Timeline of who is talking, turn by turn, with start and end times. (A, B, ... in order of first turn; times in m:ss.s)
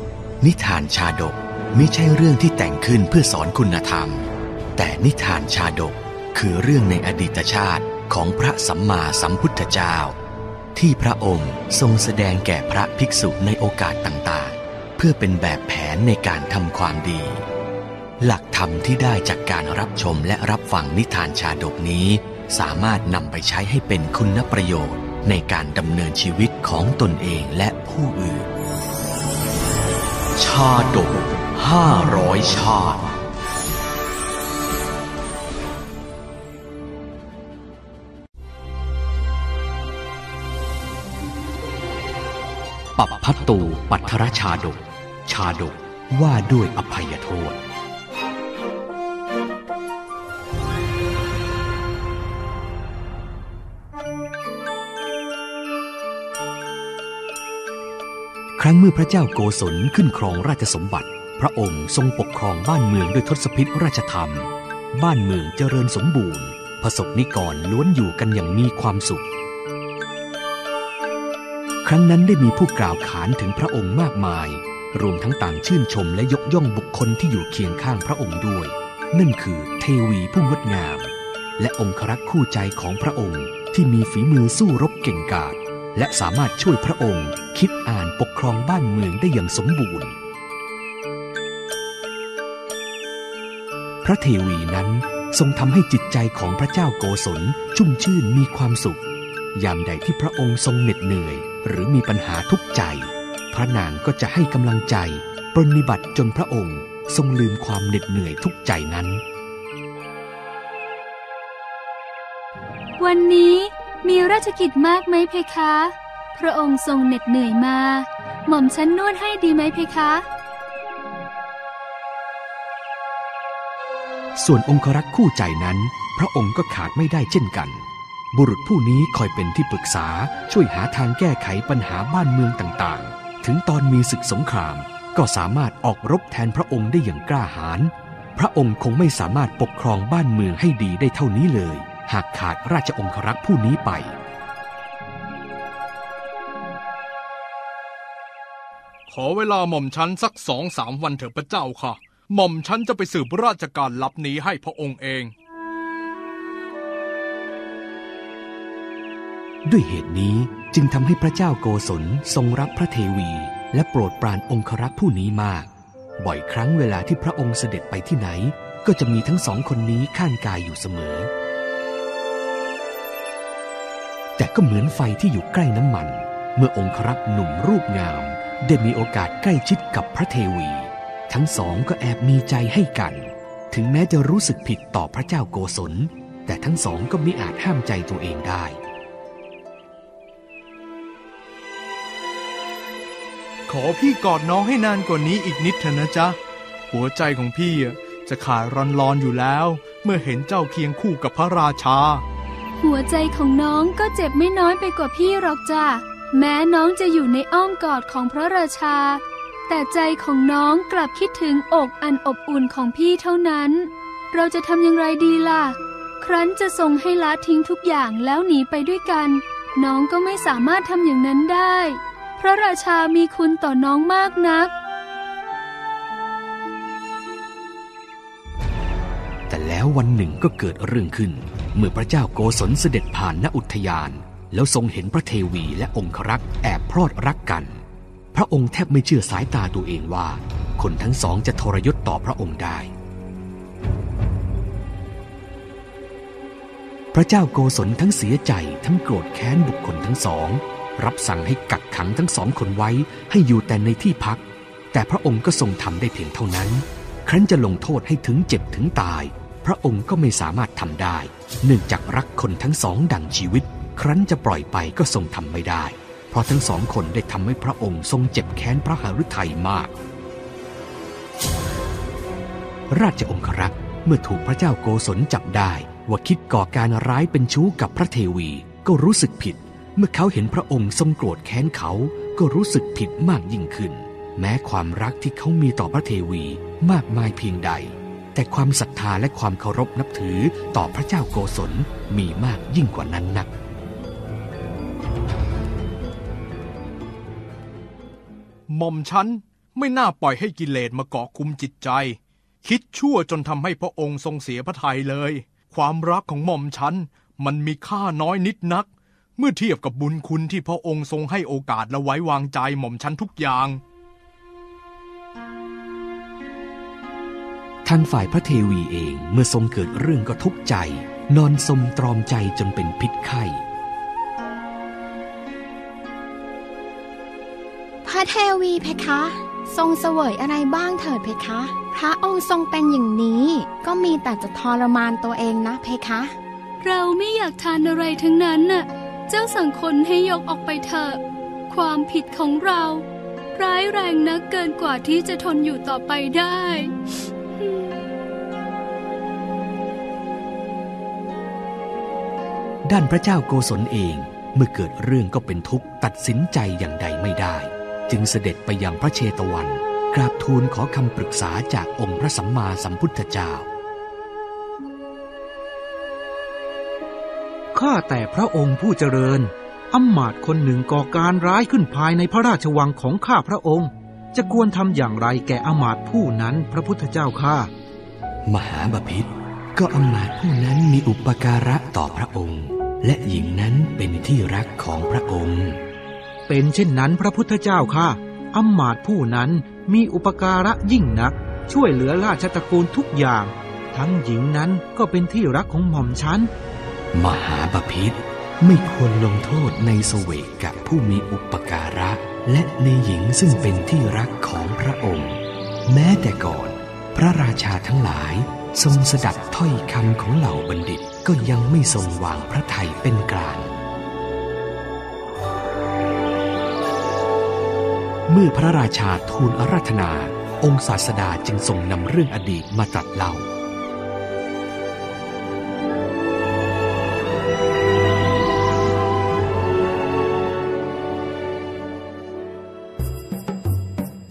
0:00.4-0:04.3 A
0:04.8-0:10.2 A
0:10.8-0:17.4 A
0:18.2-0:28.5 A
0:30.4-0:33.0 A
0:43.0-0:47.6 A
0:58.6-1:09.3 A
1:11.8-1:30.2 A
1:34.0-1:39.0 A
1:39.6-1:49.2 A
1:53.0-2:00.3 B
2:04.4-2:24.2 A
2:29.1-2:35.3 C
2:39.7-2:51.3 A
2:54.4-3:08.8 A
3:13.7-3:16.4 C
3:16.9-3:22.2 C
3:22.8-3:44.7 B
3:49.5-3:57.8 A
3:58.3-4:02.9 A
4:07.1-4:14.4 A
4:14.9-4:30.0 A
4:32.9-4:53.5 A
4:58.7-5:13.8 C
5:17.8-5:23.6 A
5:28.0-5:36.4 D
5:36.8-5:48.0 B
5:52.9-6:03.7 A
6:07.7-6:17.7 E
6:18.5-6:25.8 A
6:26.5-6:36.5 E
6:37.1-6:53.8 A
6:58.3-7:03.5 A